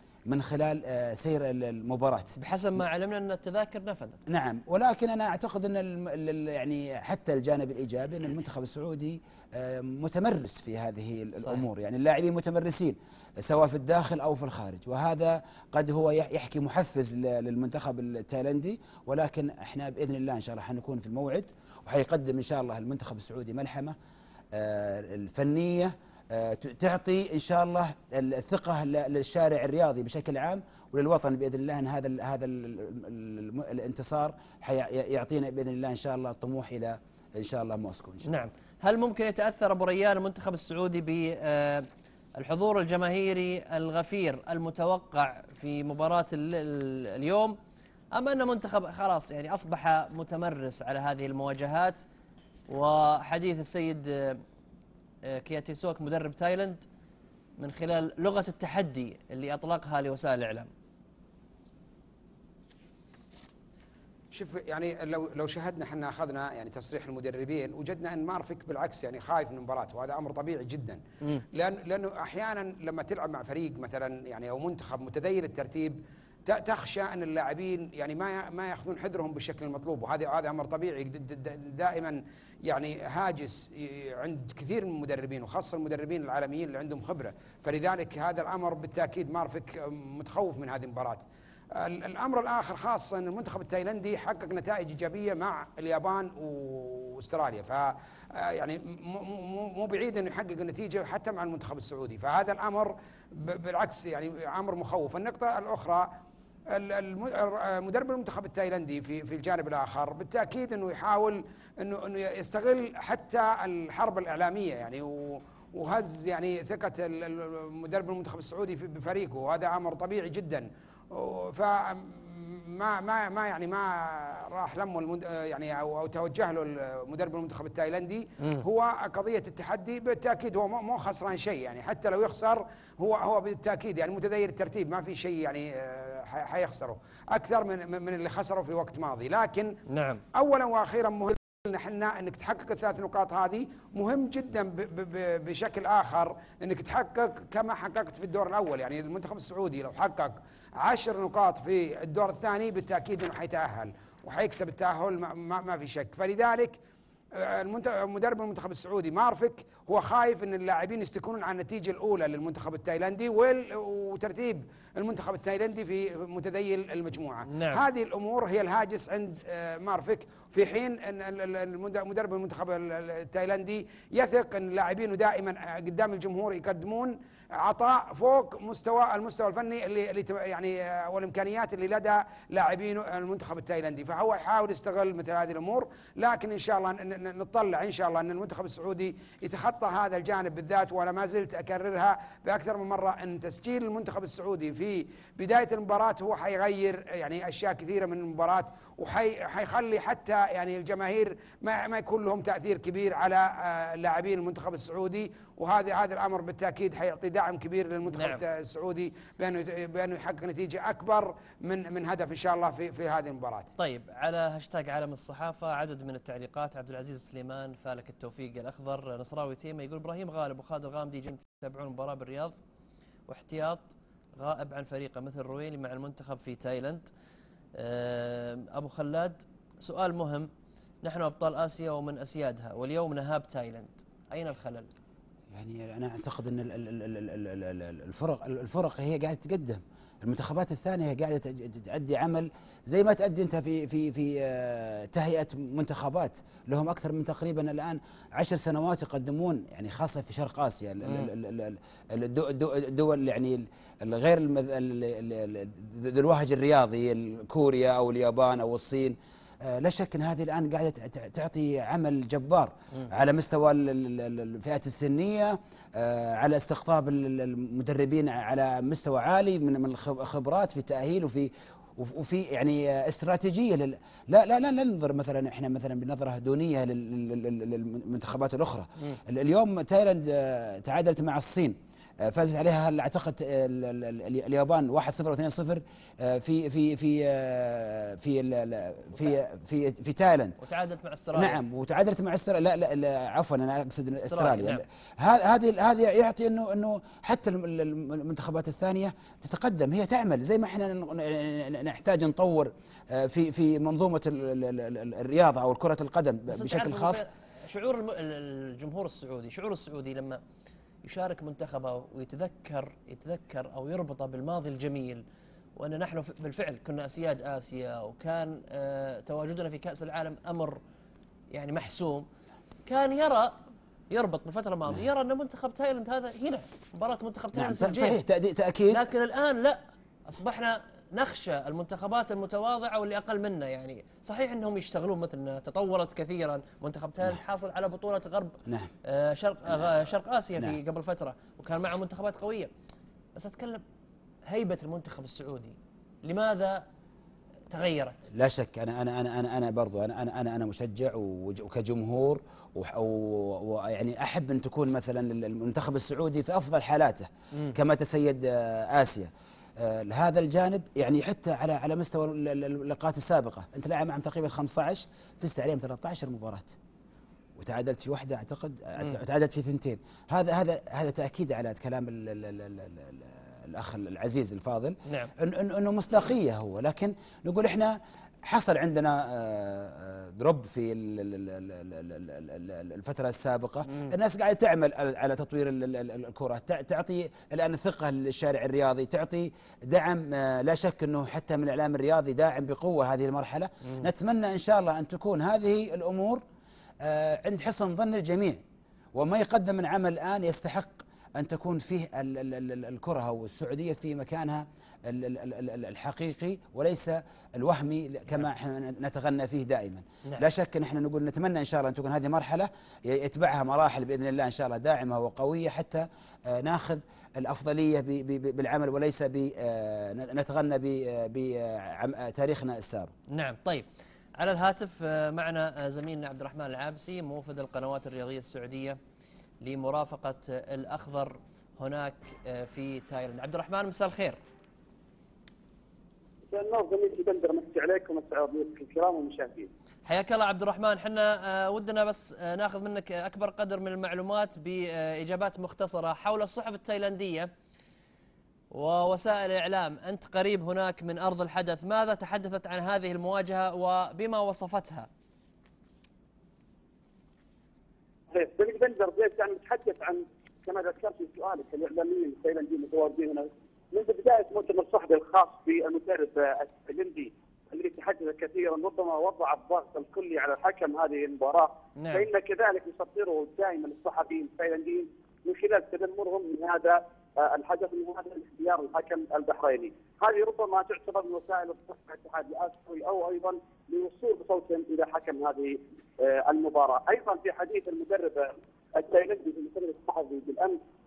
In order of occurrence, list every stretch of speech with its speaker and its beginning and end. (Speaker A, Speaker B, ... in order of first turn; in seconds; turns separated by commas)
Speaker A: 0.3-2.3, Speaker B: 2.4-4.2, Speaker A: 4.3-23.9, Speaker B: 11.4-11.6, Speaker A: 24.5-38.4, Speaker B: 38.2-47.5, Speaker B: 48.1-52.0, Speaker B: 52.7-54.4, Speaker B: 55.2-56.8, Speaker B: 57.6-60.7, Speaker C: 64.3-71.0, Speaker C: 71.5-106.1, Speaker C: 106.7-139.7, Speaker B: 139.9-140.2, Speaker C: 140.3-156.8, Speaker C: 157.3-213.7, Speaker B: 167.5-167.8, Speaker B: 208.1-208.4, Speaker B: 213.8-222.6, Speaker B: 223.3-227.1, Speaker B: 227.7-230.5, Speaker B: 231.0-234.9, Speaker A: 235.5-290.6, Speaker B: 251.0-251.3, Speaker B: 290.6-291.6, Speaker A: 291.3-307.2, Speaker B: 294.1-294.8, Speaker B: 306.5-310.4, Speaker B: 311.0-315.2, Speaker B: 315.8-320.8, Speaker B: 321.5-322.3, Speaker B: 322.9-323.6, Speaker B: 324.1-328.2, Speaker A: 327.5-329.0, Speaker B: 328.9-342.7, Speaker A: 338.6-338.9, Speaker B: 343.3-343.8, Speaker B: 344.5-346.8, Speaker B: 347.7-348.3, Speaker A: 348.3-366.8, Speaker A: 367.6-396.4, Speaker B: 375.1-375.3, Speaker B: 383.9-384.1, Speaker A: 397.0-398.6, Speaker A: 399.1-423.1, Speaker B: 423.3-423.9, Speaker B: 424.4-429.0, Speaker B: 429.6-434.4, Speaker D: 436.5-439.7, Speaker B: 440.1-447.5, Speaker B: 448.7-455.1, Speaker D: 458.3-490.8, Speaker B: 472.0-472.3